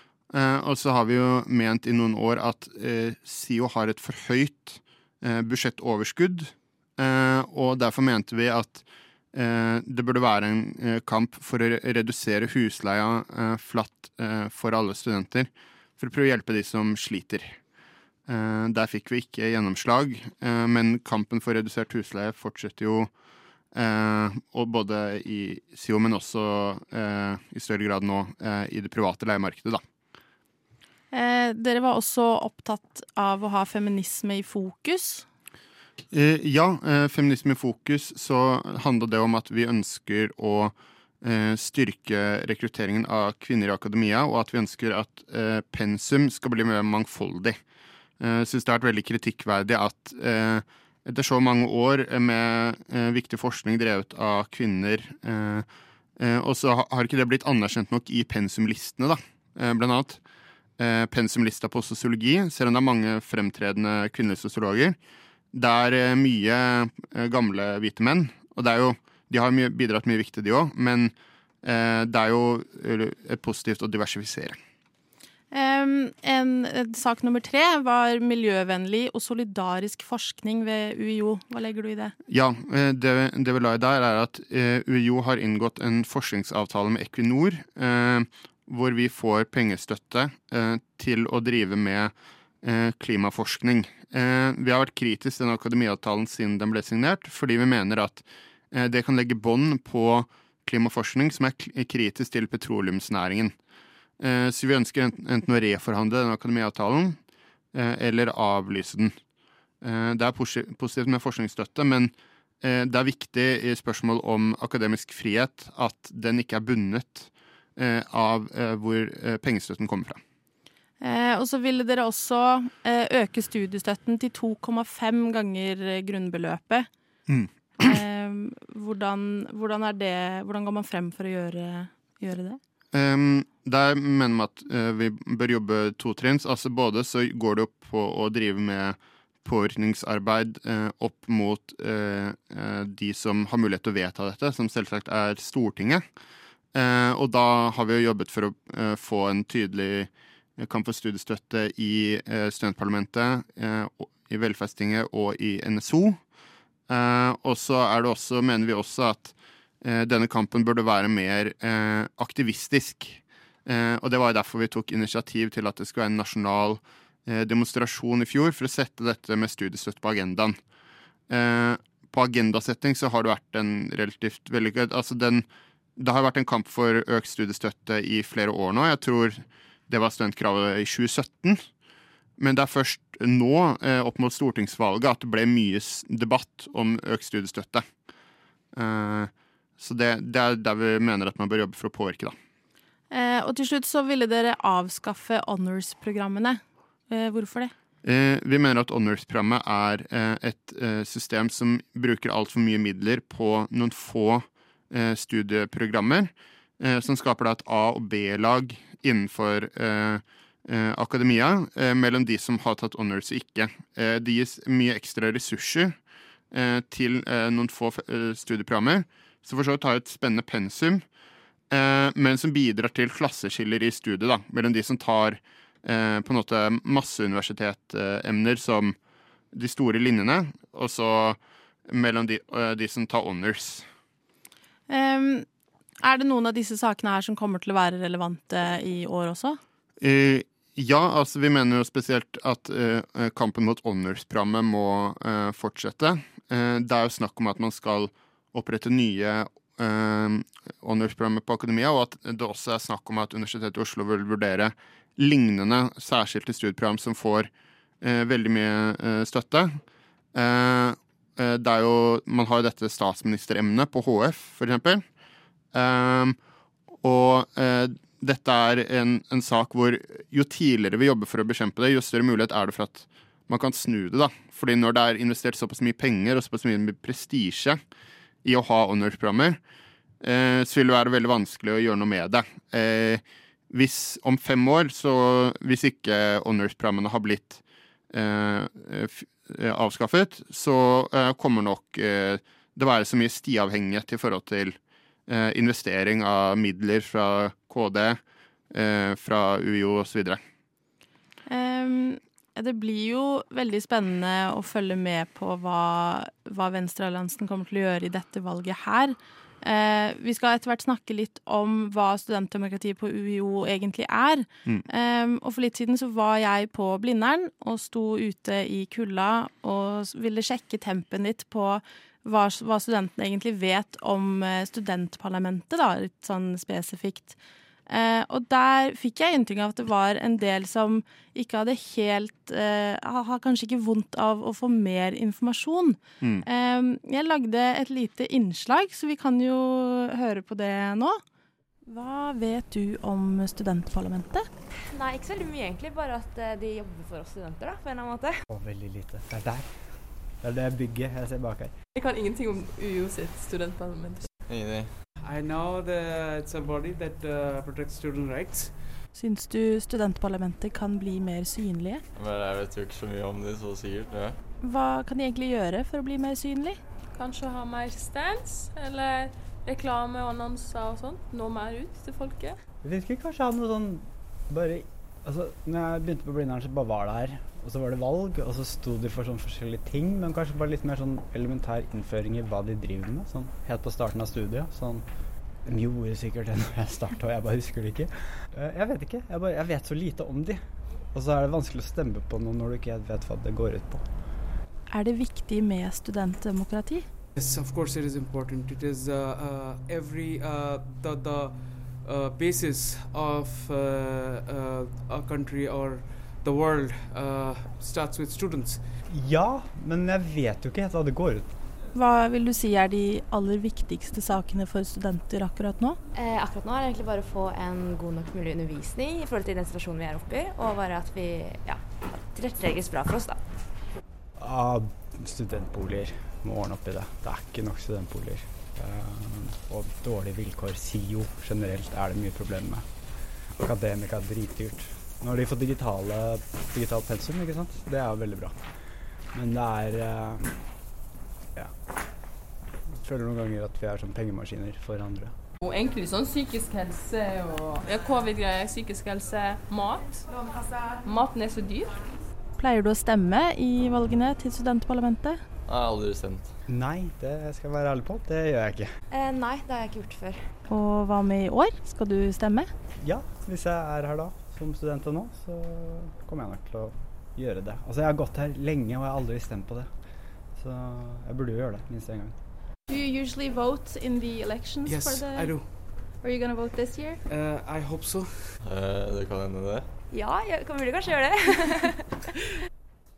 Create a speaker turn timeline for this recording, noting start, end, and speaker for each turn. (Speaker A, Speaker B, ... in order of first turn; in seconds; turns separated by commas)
Speaker A: 0.3-8.8, Speaker A: 9.3-17.6, Speaker A: 18.3-23.1, Speaker A: 23.7-29.8, Speaker B: 31.1-35.2, Speaker A: 36.1-47.6, Speaker A: 48.2-55.7, Speaker A: 56.2-60.2, Speaker A: 60.8-65.0, Speaker A: 65.5-74.5, Speaker B: 75.5-82.1, Speaker A: 82.3-92.1, Speaker A: 92.6-103.5, Speaker A: 104.2-107.2, Speaker A: 107.7-109.1, Speaker A: 109.8-120.2, Speaker B: 121.0-126.9, Speaker B: 127.8-132.6, Speaker A: 132.9-146.0, Speaker A: 146.7-156.2, Speaker A: 156.9-170.6, Speaker A: 171.3-175.4, Speaker A: 176.0-181.6, Speaker A: 182.4-187.8, Speaker A: 188.7-192.3, Speaker B: 193.1-197.7, Speaker A: 198.0-215.9, Speaker A: 216.5-221.0, Speaker A: 221.7-228.9, Speaker A: 229.5-233.9, Speaker B: 234.9-235.4, Speaker B: 236.0-239.6, Speaker A: 240.0-257.5, Speaker A: 258.0-259.8, Speaker A: 260.3-265.0, Speaker A: 265.7-266.4, Speaker A: 267.0-277.8, Speaker A: 278.4-279.6, Speaker A: 280.2-298.2, Speaker A: 298.7-300.4, Speaker B: 301.5-327.4, Speaker B: 327.9-341.2, Speaker B: 341.9-344.5, Speaker C: 344.9-348.4, Speaker D: 348.5-351.7, Speaker E: 351.9-354.3, Speaker F: 354.5-354.9, Speaker G: 355.2-358.8, Speaker B: 359.1-362.0, Speaker F: 362.1-364.4, Speaker B: 364.6-366.8, Speaker E: 367.1-372.6, Speaker D: 372.8-385.0, Speaker D: 385.6-390.6, Speaker D: 391.1-394.1, Speaker B: 394.9-397.1, Speaker G: 397.4-408.8, Speaker D: 409.1-411.5, Speaker B: 411.9-416.0, Speaker C: 416.1-423.4, Speaker D: 424.4-432.9, Speaker D: 433.6-438.6, Speaker D: 439.3-440.7, Speaker D: 443.0-445.3, Speaker E: 445.6-452.1, Speaker B: 452.6-455.4, Speaker F: 455.7-456.5, Speaker D: 456.7-458.9, Speaker C: 459.1-460.4, Speaker B: 460.7-462.7, Speaker D: 463.0-469.9, Speaker D: 470.6-472.4, Speaker E: 472.9-475.6, Speaker G: 474.9-476.0, Speaker E: 476.1-477.2, Speaker G: 477.3-478.6, Speaker F: 478.6-479.9, Speaker C: 480.1-482.1